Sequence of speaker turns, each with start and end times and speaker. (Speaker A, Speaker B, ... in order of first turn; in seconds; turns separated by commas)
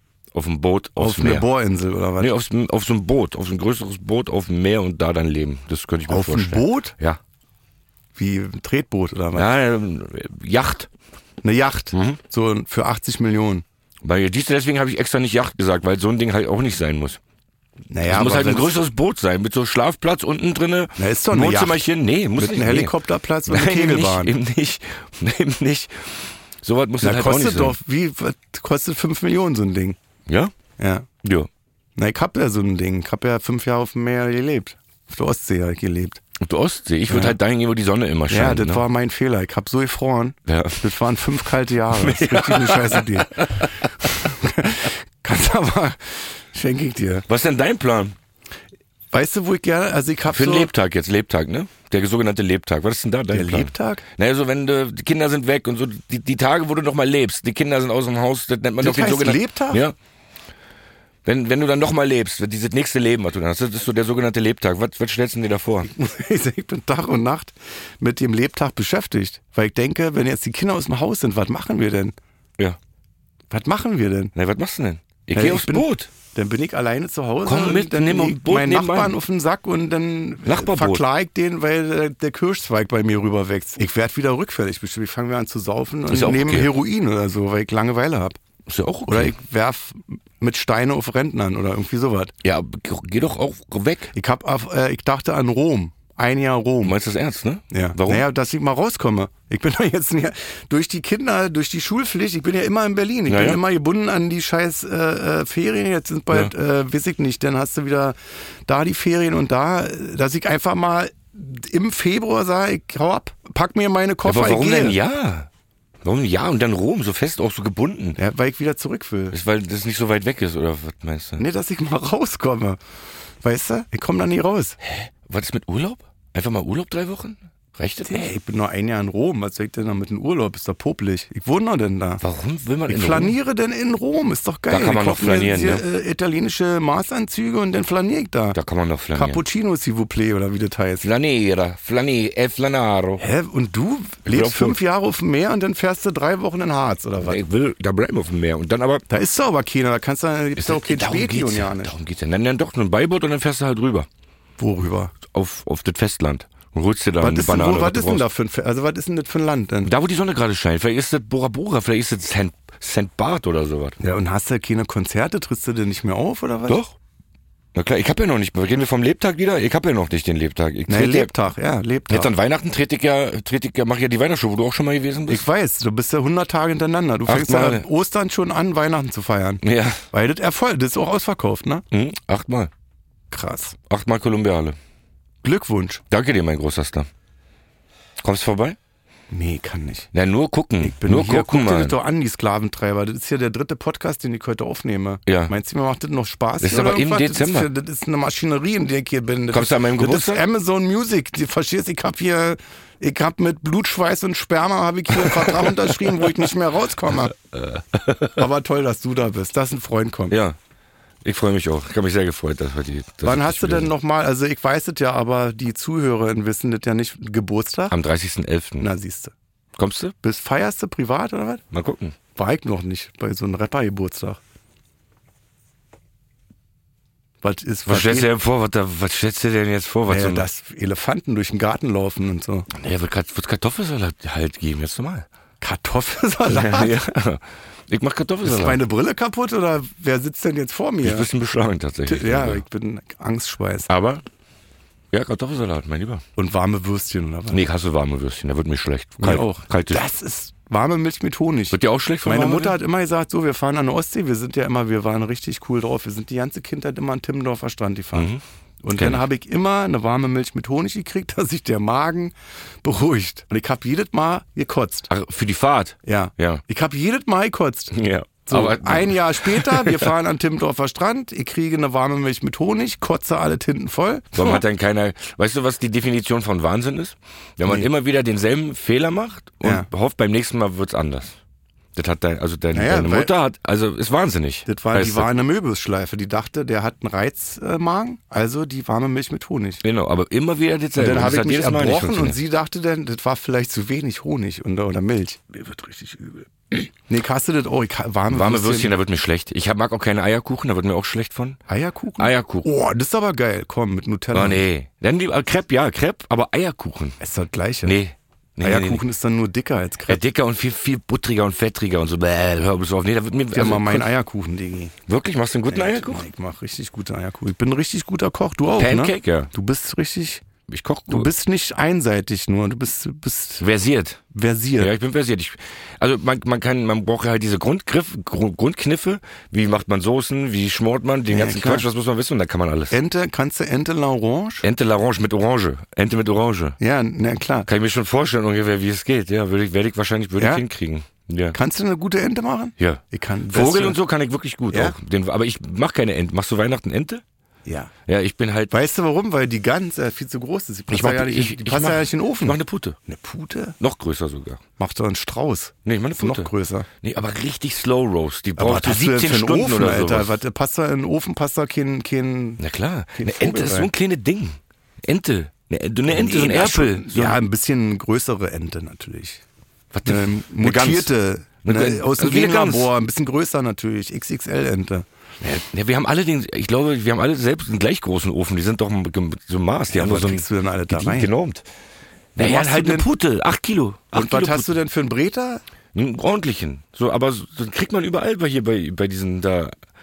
Speaker A: 0.3-1.5, Speaker B: 1.0-2.3, Speaker A: 2.2-7.2, Speaker B: 6.1-6.9, Speaker B: 8.2-9.5, Speaker A: 9.3-10.9, Speaker B: 11.4-13.6, Speaker A: 11.9-12.2, Speaker A: 14.0-17.2, Speaker B: 17.9-18.8, Speaker A: 18.1-22.9, Speaker B: 21.0-21.8, Speaker B: 22.4-24.4, Speaker A: 23.5-27.8, Speaker B: 27.0-30.0, Speaker A: 30.3-30.6, Speaker B: 30.8-31.1, Speaker A: 31.2-31.5, Speaker B: 32.0-36.2, Speaker A: 36.4-38.9, Speaker B: 37.1-37.4, Speaker B: 38.3-47.3, Speaker A: 40.5-41.0, Speaker A: 41.9-43.7, Speaker A: 47.3-48.1, Speaker B: 49.1-50.7, Speaker A: 50.3-60.0, Speaker B: 53.3-54.0, Speaker B: 58.8-59.8, Speaker A: 61.2-65.9, Speaker B: 65.9-72.1, Speaker B: 73.5-74.3, Speaker A: 74.3-76.1, Speaker B: 75.3-88.4, Speaker A: 77.5-79.2, Speaker A: 80.5-81.0, Speaker A: 86.1-86.7, Speaker A: 88.7-89.4, Speaker B: 89.1-92.3, Speaker A: 92.4-94.1, Speaker B: 94.1-97.0, Speaker A: 96.8-98.3, Speaker B: 97.7-115.0, Speaker A: 103.3-103.6, Speaker A: 114.2-115.5, Speaker A: 116.0-118.2, Speaker B: 118.2-119.4, Speaker A: 119.3-121.4, Speaker B: 121.4-122.8, Speaker B: 123.4-124.8, Speaker A: 124.9-128.3, Speaker B: 128.1-132.2, Speaker A: 132.2-133.4, Speaker B: 132.9-138.6, Speaker A: 134.7-135.8, Speaker A: 138.5-139.4, Speaker B: 139.1-141.1, Speaker A: 141.0-143.2, Speaker B: 143.2-147.4, Speaker A: 144.3-144.8, Speaker A: 147.2-149.1, Speaker B: 149.1-151.9, Speaker A: 150.6-154.1, Speaker B: 154.6-155.2, Speaker A: 155.3-158.3, Speaker B: 157.2-159.9, Speaker A: 159.8-164.0, Speaker B: 164.0-166.8, Speaker A: 166.7-166.9, Speaker A: 167.7-171.3, Speaker B: 170.9-172.3, Speaker A: 172.1-175.5, Speaker B: 175.3-181.8, Speaker A: 177.3-177.9, Speaker A: 179.6-180.0, Speaker A: 181.9-182.7, Speaker B: 183.3-183.8, Speaker A: 183.9-184.8, Speaker B: 185.4-186.0, Speaker A: 186.1-187.1, Speaker A: 188.2-188.8, Speaker B: 189.3-190.1, Speaker A: 190.1-192.0, Speaker B: 190.8-207.3, Speaker A: 195.3-195.5, Speaker A: 196.6-197.7, Speaker A: 199.5-200.4, Speaker A: 205.2-206.3, Speaker A: 207.5-208.4, Speaker B: 208.3-210.4, Speaker A: 210.3-210.6, Speaker A: 211.2-213.9, Speaker B: 213.2-218.0, Speaker A: 217.9-218.9, Speaker B: 218.8-219.3, Speaker A: 219.8-220.1, Speaker B: 220.2-221.6, Speaker A: 221.7-222.2, Speaker B: 222.3-224.4, Speaker B: 227.4-228.3, Speaker A: 227.9-230.5, Speaker B: 230.1-232.7, Speaker A: 232.7-235.3, Speaker B: 235.6-237.0, Speaker A: 236.5-238.8, Speaker B: 238.4-241.3, Speaker A: 241.0-242.6, Speaker B: 242.1-243.9, Speaker A: 243.9-244.2, Speaker A: 245.1-246.2, Speaker B: 246.4-247.6, Speaker A: 247.5-250.1, Speaker B: 249.2-258.3, Speaker A: 251.7-252.8, Speaker A: 258.1-258.4, Speaker B: 258.8-265.1, Speaker A: 258.9-259.2, Speaker A: 265.1-266.6, Speaker B: 266.1-274.6, Speaker A: 267.9-270.1, Speaker A: 274.3-281.4, Speaker B: 279.6-279.9, Speaker A: 281.9-285.3, Speaker B: 282.7-283.3, Speaker B: 284.7-289.8, Speaker A: 289.8-292.4, Speaker B: 291.0-298.9, Speaker A: 298.3-301.6, Speaker B: 301.7-304.6, Speaker A: 302.2-302.7, Speaker A: 304.3-307.2, Speaker B: 307.2-308.0, Speaker A: 307.8-309.0, Speaker B: 308.6-310.2, Speaker A: 310.1-314.1, Speaker B: 313.5-314.9, Speaker A: 315.1-316.3, Speaker B: 315.7-320.4, Speaker A: 318.8-319.5, Speaker A: 320.7-321.3, Speaker B: 321.1-323.6, Speaker A: 323.6-324.2, Speaker B: 324.3-324.9, Speaker A: 324.8-333.0, Speaker B: 331.3-331.9, Speaker B: 332.9-334.6, Speaker A: 334.6-336.8, Speaker B: 336.8-337.7, Speaker A: 337.6-341.6, Speaker B: 340.4-340.6, Speaker B: 341.5-344.0, Speaker A: 342.8-347.2, Speaker B: 344.7-345.0, Speaker B: 347.6-347.9, Speaker A: 348.1-348.7, Speaker B: 348.7-353.8, Speaker A: 350.9-353.0, Speaker A: 353.8-354.6, Speaker B: 354.8-356.9, Speaker A: 355.9-356.5, Speaker A: 357.0-360.4, Speaker B: 358.6-362.6, Speaker A: 362.6-367.4, Speaker B: 363.2-363.9, Speaker B: 366.1-369.4, Speaker A: 369.9-371.1, Speaker B: 370.1-375.1, Speaker A: 371.6-372.9, Speaker A: 375.4-381.6, Speaker B: 379.9-381.3, Speaker A: 382.4-384.7, Speaker B: 382.4-383.1, Speaker B: 384.1-385.6, Speaker A: 385.9-389.7